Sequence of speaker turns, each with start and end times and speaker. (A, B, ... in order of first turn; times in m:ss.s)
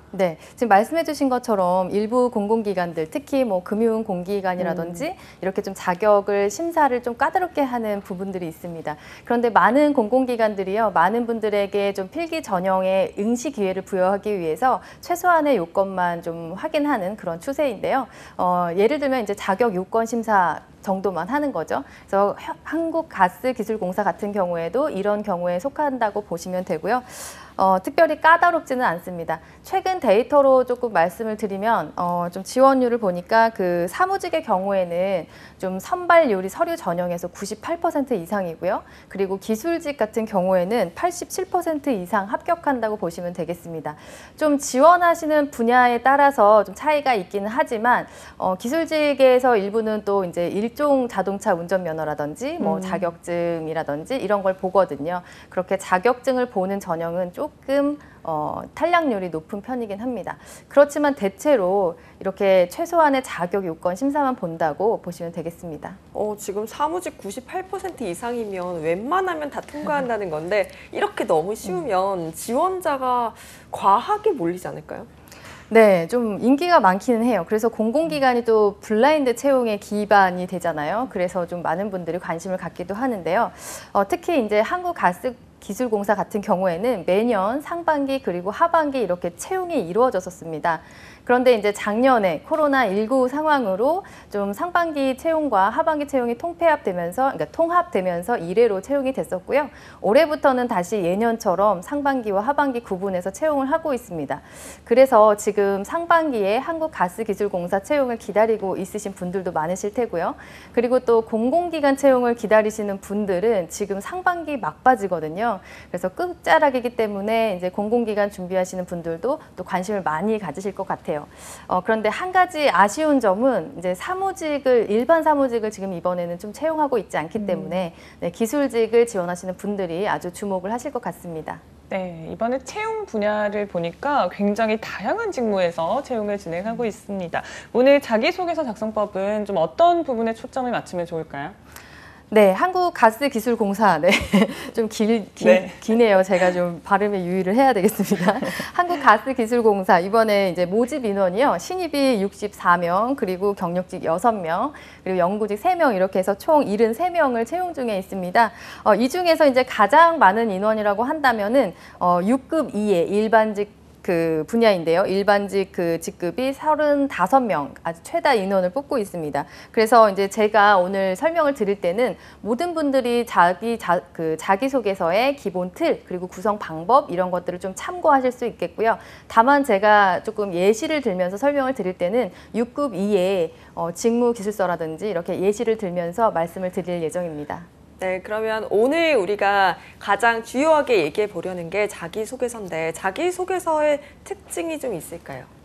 0:00.1-1:06.0 A
0:04.6-0:05.0 B
0:52.6-0:53.1 B
1:06.1-1:15.1 C
1:15.7-2:11.6 A
2:07.4-2:07.9 B
2:11.9-2:21.6 B
2:22.3-3:07.7 A
2:25.4-2:25.8 B
3:08.0-3:15.5 C